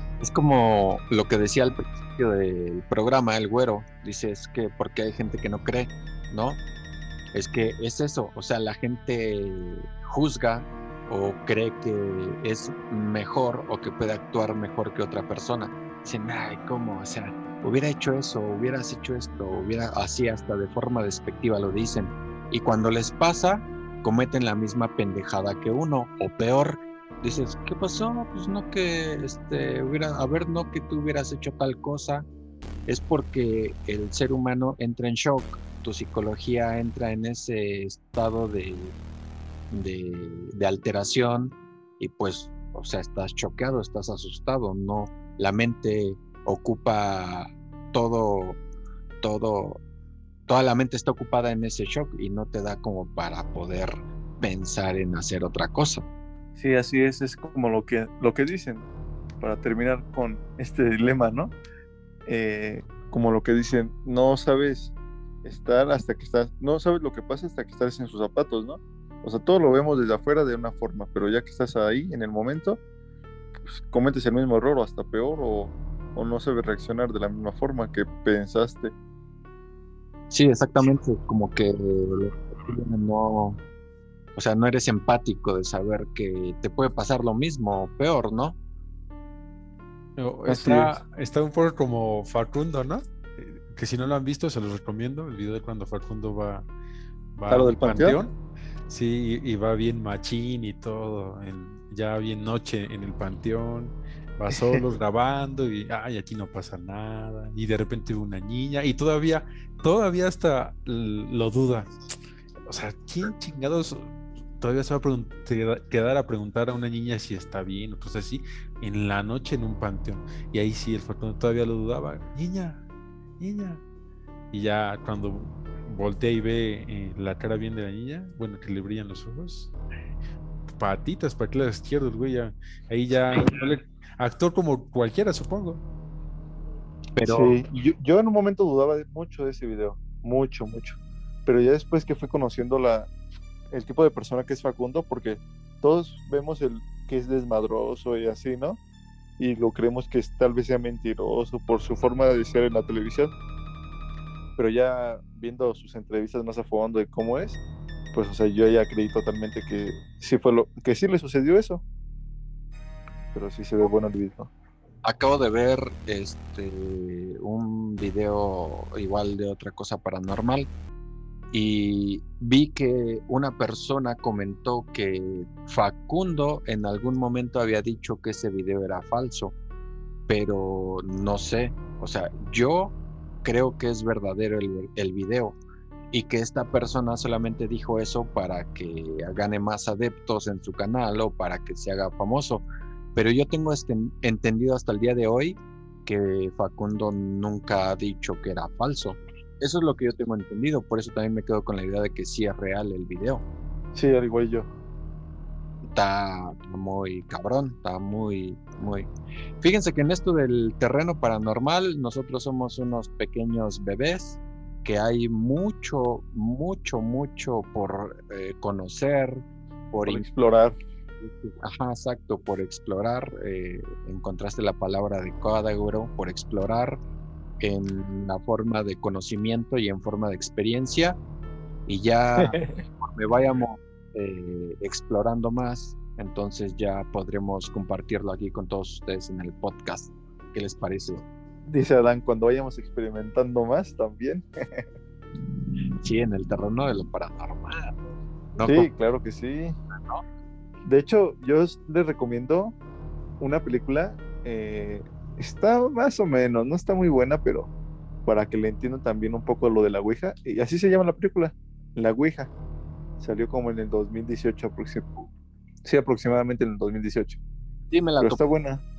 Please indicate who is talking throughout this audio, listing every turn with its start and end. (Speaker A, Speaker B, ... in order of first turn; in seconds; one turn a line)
Speaker A: 0.2-6.6
Speaker A: 7.3-32.2
Speaker A: 32.9-38.9
Speaker A: 39.7-48.6
Speaker A: 49.2-49.8
Speaker A: 50.5-56.1
Speaker B: 56.5-58.9
Speaker B: 59.4-61.5
Speaker B: 62.2-72.8
Speaker B: 73.6-78.9
Speaker A: 80.3-83.6
Speaker A: 84.3-88.6
Speaker C: 90.2-96.7
Speaker B: 90.5-90.9
Speaker C: 97.3-98.3
Speaker B: 97.5-98.2
Speaker C: 98.9-111.9
Speaker B: 104.5-104.8
Speaker C: 112.7-122.8
Speaker C: 123.4-123.8
Speaker C: 124.5-129.7
Speaker C: 130.7-135.8
Speaker A: 137.2-137.6
Speaker B: 137.2-143.1
Speaker B: 143.7-148.8
Speaker B: 149.4-153.3
Speaker B: 154.6-157.6
Speaker B: 158.1-161.8
Speaker B: 163.3-164.5
Speaker A: 165.0-170.7
Speaker A: 171.5-179.5
Speaker A: 180.3-185.6
Speaker A: 186.1-203.4
Speaker B: 203.9-204.7
Speaker A: 205.9-209.1
Speaker A: 209.6-220.3
Speaker B: 220.1-220.8
Speaker A: 221.2-227.0
Speaker A: 227.6-231.2
Speaker A: 231.8-241.2
Speaker B: 232.4-232.7
Speaker B: 241.7-244.8
Speaker A: 246.0-248.0
Speaker A: 248.6-248.9
Speaker B: 248.6-249.8
Speaker A: 249.9-250.2
Speaker B: 250.8-252.8
Speaker B: 253.4-257.7
Speaker B: 258.2-262.5
Speaker B: 263.2-265.3
Speaker B: 265.8-267.4
Speaker A: 267.9-268.4
Speaker B: 268.2-268.8